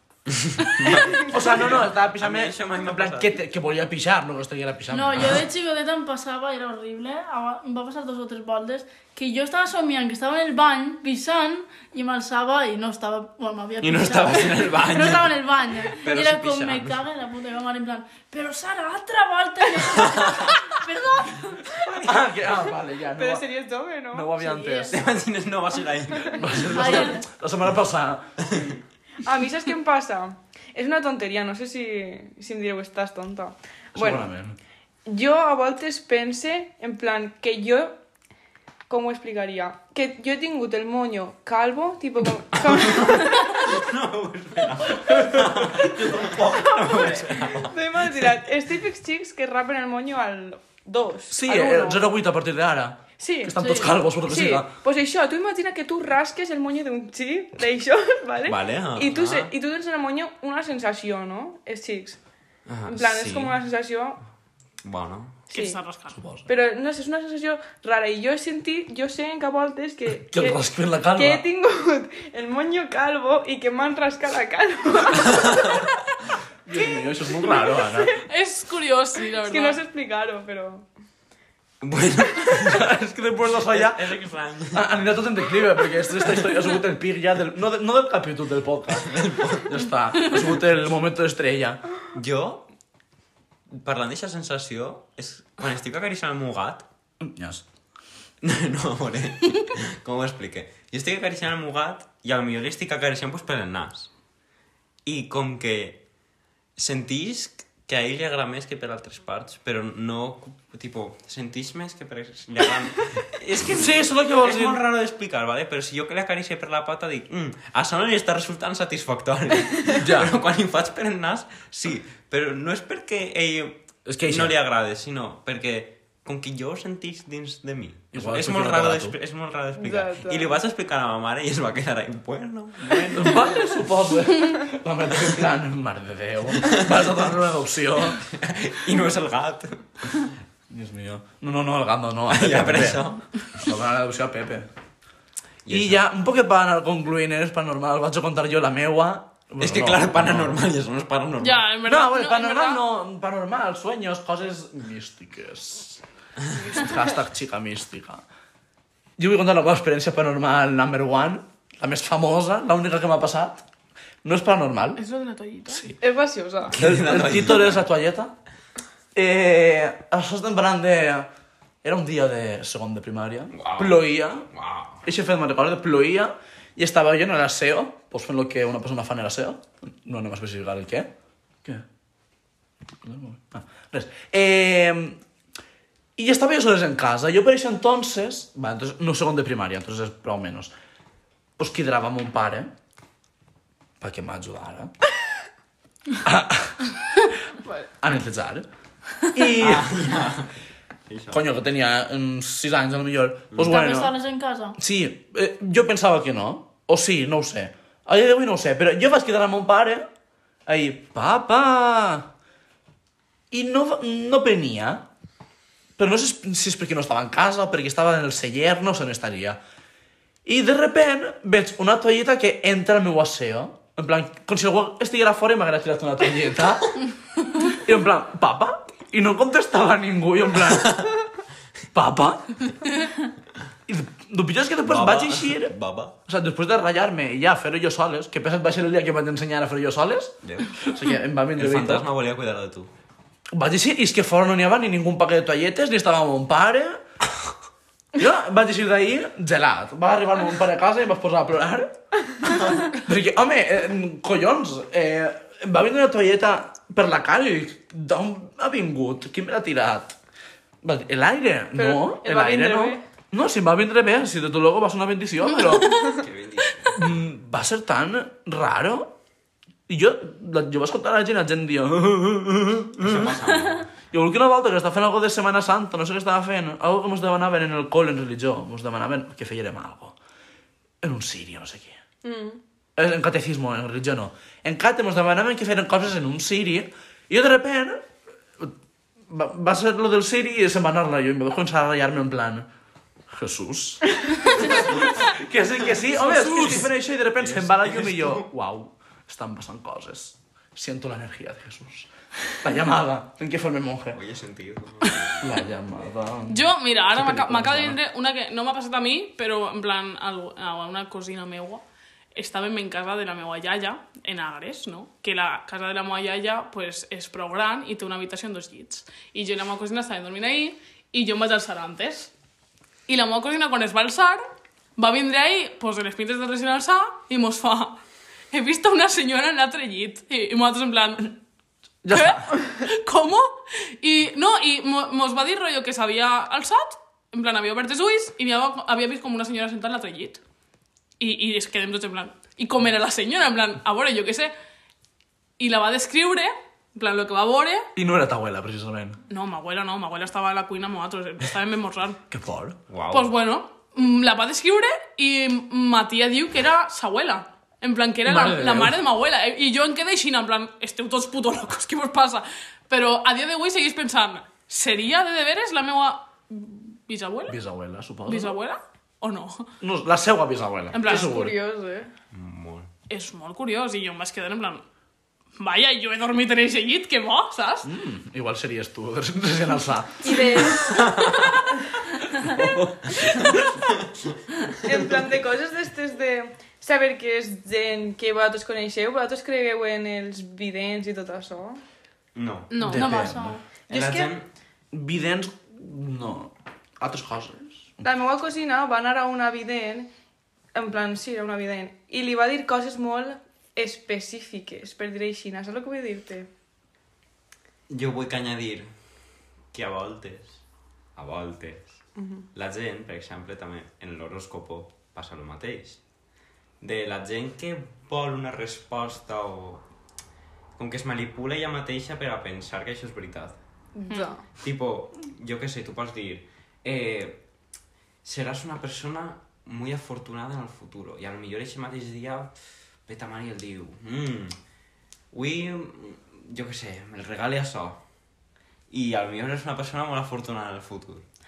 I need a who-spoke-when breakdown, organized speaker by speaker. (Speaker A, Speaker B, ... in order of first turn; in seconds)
Speaker A: 0.3-3.4, 13.8-17.0, 20.0-20.5, 21.8-22.1, 24.9-27.1, 28.4-28.8, 42.6-48.3, 58.4-59.5, 62.7-63.5, 64.8-65.4, 81.8-82.9, 83.6-85.1, 88.9-89.8, 92.1-92.7, 93.7-96.9, 98.4-104.1, 105.0-106.0, 106.8-133.7, 136.5-137.3, 138.0-140.3, 142.3-143.7, 145.7-146.0, 149.6-151.7, 166.7-167.8, 173.5-175.1, 199.6-200.5, 201.1-201.4, 203.5-203.8, 230.8-231.1, 234.8-236.2, 240.4-240.8, 241.6-242.9, 266.0-267.2, 273.0-273.9, 296.2-298.5, 304.1-305.6, 352.9-353.3, 372.3-372.9, 380.9-381.4, 392.4-393.0, 393.9-394.5, 407.9-408.9, 409.7-410.6, 411.1-412.0, 412.5-416.0, 416.8-419.9, 420.8-423.6, 424.6-427.4, 428.2-434.6, 435.3-438.0, 438.9-441.3
Speaker B: 1.1-5.4, 22.0-23.4, 24.1-25.0, 26.4-28.2, 34.0-34.6, 45.1-46.8, 51.3-54.7, 66.1-66.5, 70.3-71.4, 76.7-78.1, 82.6-91.8, 97.2-97.6, 113.6-114.8, 119.9-120.4, 124.1-124.6, 128.1-129.2, 133.1-138.2, 140.7-144.7, 145.7-150.6, 151.8-156.0, 156.6-158.2, 159.2-163.6, 164.2-165.0, 165.7-165.9, 166.7-168.3, 169.2-171.3, 171.8-174.5, 175.0-181.1, 183.0-185.2, 186.2-190.7, 191.6-192.7, 194.0-194.9, 196.2-196.9, 198.0-198.7, 199.2-200.1, 201.3-204.2, 204.8-210.1, 210.7-212.3, 213.5-215.1, 216.0-219.6, 220.4-227.0, 227.6-231.1, 231.9-232.6, 233.9-235.7, 236.3-242.1, 243.5-247.0, 248.2-251.9, 252.8-260.2, 260.8-266.1, 266.9-269.1, 269.9-273.4, 274.1-280.2, 281.0-282.0, 283.0-288.0, 289.3-292.7, 293.3-304.2, 305.4-308.0, 332.0-332.5, 347.9-349.2, 352.3-352.8, 358.2-359.0, 367.5-368.6, 369.8-371.6, 377.9-380.8, 382.4-383.6, 392.9-393.6, 394.9-398.0
Speaker C: 4.9-21.7, 24.4-25.0, 26.7-27.2, 53.6-54.0, 203.6-204.8, 392.9-393.6
Speaker D: 23.1-24.3, 29.2-34.3, 35.1-38.0, 38.9-43.8, 46.8-52.1, 53.2-53.5, 54.2-62.2, 62.9-64.2, 65.5-65.8, 66.5-75.8, 77.4-78.1, 79.4-80.9, 129.8-130.6, 166.0-166.8, 261.8-263.0, 282.2-282.6, 371.1-372.1, 380.2-381.0, 384.8-391.8, 393.9-394.3, 398.0-400.1, 400.8-406.5, 412.2-412.5, 423.9-424.4
Speaker E: 65.5-66.2, 78.1-79.8, 151.4-152.8, 165.0-165.9, 306.5-311.8, 312.4-322.3, 323.1-324.4, 325.0-328.0, 328.5-331.4, 332.1-340.4, 341.2-344.5, 345.6-347.9, 349.3-352.2, 353.1-367.6, 368.3-369.7, 370.9-371.4, 373.1-374.8, 375.6-377.9, 392.7-393.3